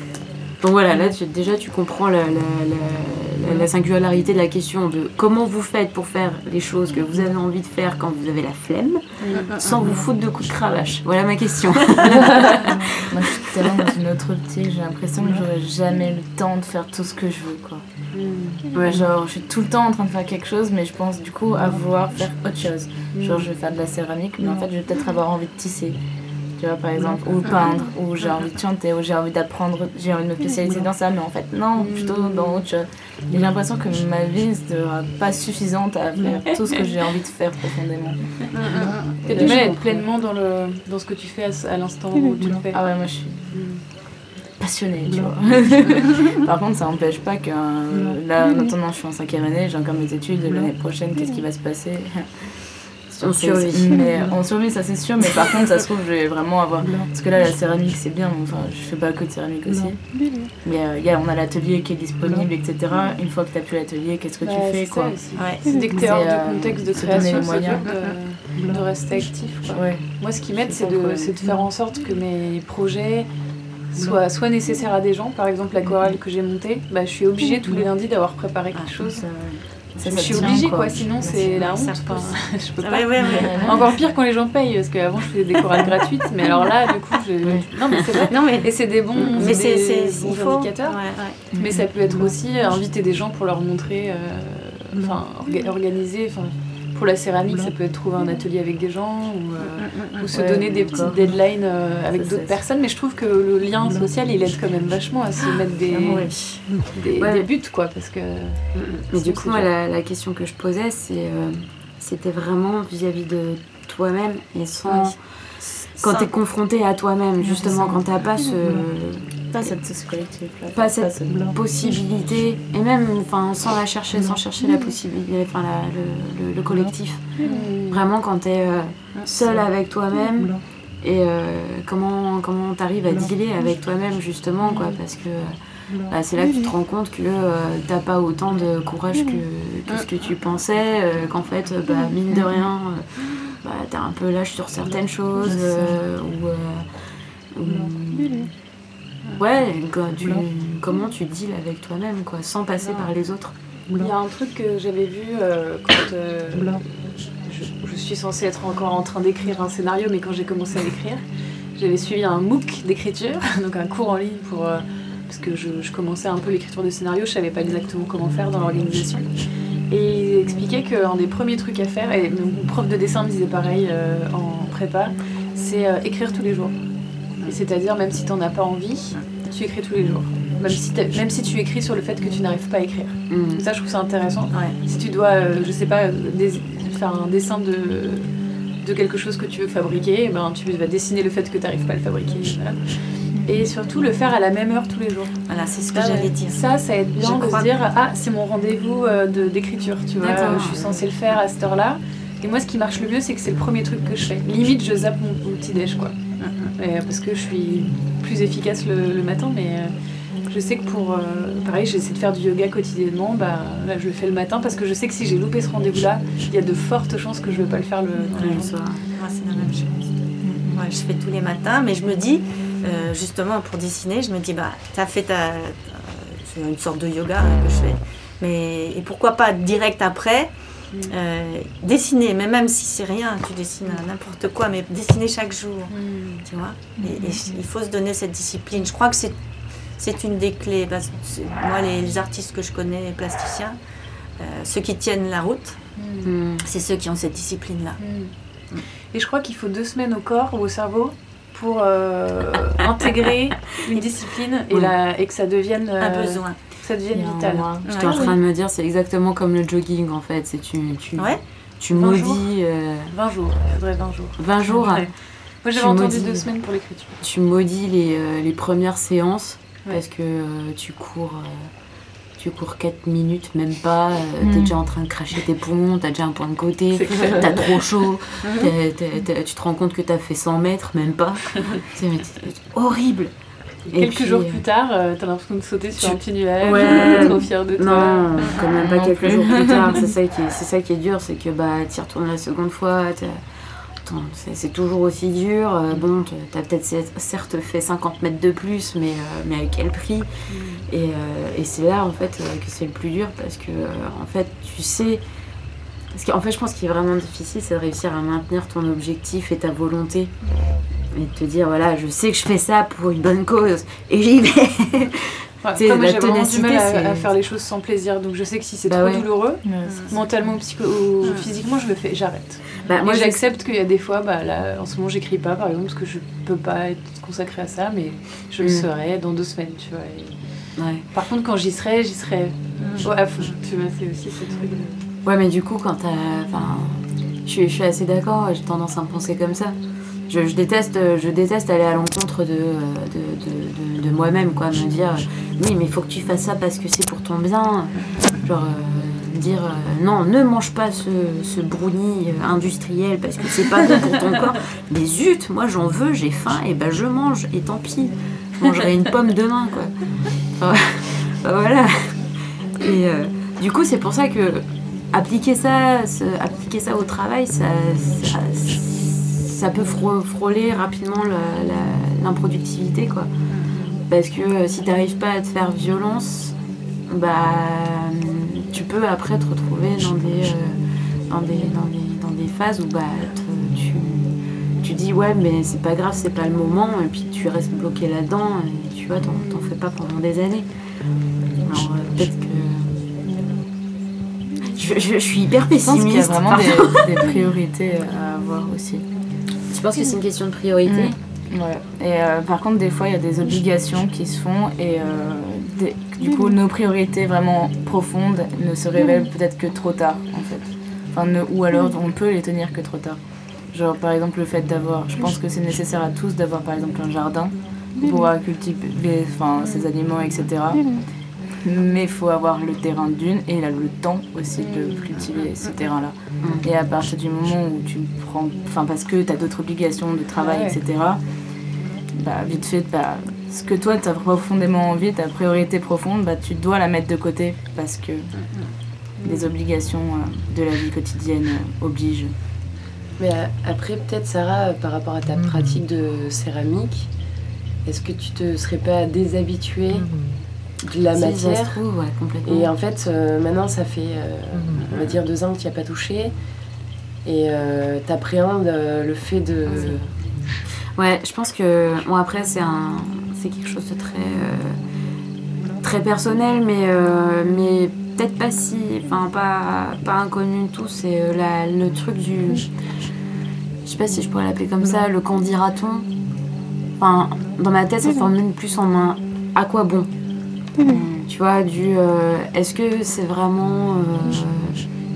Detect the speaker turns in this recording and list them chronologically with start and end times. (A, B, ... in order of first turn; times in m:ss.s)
0:00.6-0:13.4 A
0:09.2-0:09.5 B
0:09.3-0:09.9 C
0:12.2-0:17.8 D
0:18.1-0:18.9 B
0:18.7-0:26.0 D
0:23.1-0:23.5 B
0:26.6-0:38.7 D
0:31.8-0:32.6 B
0:38.6-0:39.1 C
0:39.2-0:39.7 D
0:39.2-0:43.0 B
0:39.3-0:40.0 E
0:42.7-0:43.6 D
0:43.5-0:43.8 B
0:44.6-0:52.5 D
0:53.1-1:05.3 D
0:53.2-0:54.0 A
1:04.4-1:13.3 B
1:05.4-1:05.7 C
1:05.9-1:07.9 D
1:09.7-1:11.5 D
1:13.9-1:19.2 B
1:19.0-1:21.7 D
1:20.0-1:46.3 B
1:21.2-1:23.9 C
1:23.2-1:24.2 D
1:28.3-1:31.4 C
1:31.5-1:31.9 D
1:39.8-1:40.5 C
1:40.8-1:41.1 D
1:45.4-1:46.7 C
1:46.8-1:49.7 B
1:47.2-1:47.5 A
1:48.8-1:49.0 E
1:49.1-1:55.2 A
1:56.0-1:56.3 C
1:56.0-1:59.7 A
1:57.6-1:58.0 D
1:59.5-2:01.4 D
2:00.7-2:07.2 A
2:07.4-2:08.0 B
2:07.9-2:26.9 A
2:14.6-2:15.0 B
2:27.5-2:28.5 A
2:29.4-2:33.5 A
2:33.9-2:36.9 B
2:37.4-2:41.2 B
2:41.8-2:49.3 B
2:49.9-2:56.8 B
2:57.4-3:08.3 B
3:03.3-3:03.6 A
3:04.5-3:04.8 C
3:08.8-3:26.2 B
3:13.4-3:13.7 D
3:15.5-3:16.6 C
3:17.2-3:17.8 C
3:20.2-3:20.9 A
3:26.4-3:26.7 C
3:26.8-3:29.9 B
3:30.5-3:38.7 B
3:38.4-3:38.6 C
3:38.4-3:39.0 A
3:39.2-3:40.0 C
3:40.4-3:40.8 D
3:40.7-3:50.5 C
3:51.1-3:59.4 C
3:55.9-3:56.4 B
3:57.0-3:57.3 D
4:00.0-4:03.8 C
4:04.4-4:05.8 C
4:06.0-4:06.3 B
4:06.2-4:06.6 A
4:06.6-4:08.0 C
4:08.0-4:08.3 B
4:09.1-4:18.4 B
4:16.0-4:16.6 C
4:17.1-4:17.8 D
4:17.8-4:18.2 C
4:17.9-4:23.1 A
4:21.9-4:22.5 B
4:23.1-4:25.1 B
4:24.4-4:25.1 A
4:25.6-4:27.2 B
4:25.7-4:26.5 A
4:27.2-4:31.7 A
4:32.4-4:43.3 A
4:34.4-4:34.8 D
4:36.9-4:37.7 B
4:43.9-4:44.6 A
4:43.9-4:48.5 B
4:46.0-4:53.4 A
4:48.8-4:50.0 D
4:54.0-5:00.3 A
5:00.5-5:00.8 B
5:00.9-5:05.2 A
5:06.1-5:10.3 A
5:11.1-5:17.3 A
5:15.6-5:30.4 B
5:18.9-5:19.3 A
5:19.6-5:20.1 D
5:19.8-5:20.2 C
5:22.8-5:23.4 A
5:28.6-5:28.9 A
5:30.8-5:31.1 A
5:31.1-5:35.0 B
5:32.8-5:33.5 C
5:35.2-5:39.8 A
5:40.3-6:00.0 A
6:00.6-6:13.3 A
6:14.1-6:16.6 A
6:17.1-6:30.7 A
6:31.6-6:33.0 A
6:34.7-6:37.2 A
6:35.8-6:39.1 D
6:39.7-6:41.2 A
6:40.9-6:53.2 D
6:53.7-7:01.0 D
7:01.6-7:11.2 D
7:04.6-7:05.1 B
7:10.4-7:10.8 B
7:12.2-7:18.3 D
7:18.4-7:18.7 C
7:19.2-7:19.5 B
7:19.2-7:22.3 D
7:23.2-7:27.1 E
7:27.8-7:30.2 E
7:30.8-7:31.8 E
7:31.1-7:32.7 A
7:32.4-7:36.3 E
7:34.8-7:35.1 C
7:37.2-7:40.1 E
7:39.7-7:40.0 C
7:41.0-7:44.8 A
7:45.8-7:52.7 A
7:53.8-7:56.1 A
7:57.0-8:00.1 A
8:00.8-8:01.2 D
8:01.2-8:04.8 A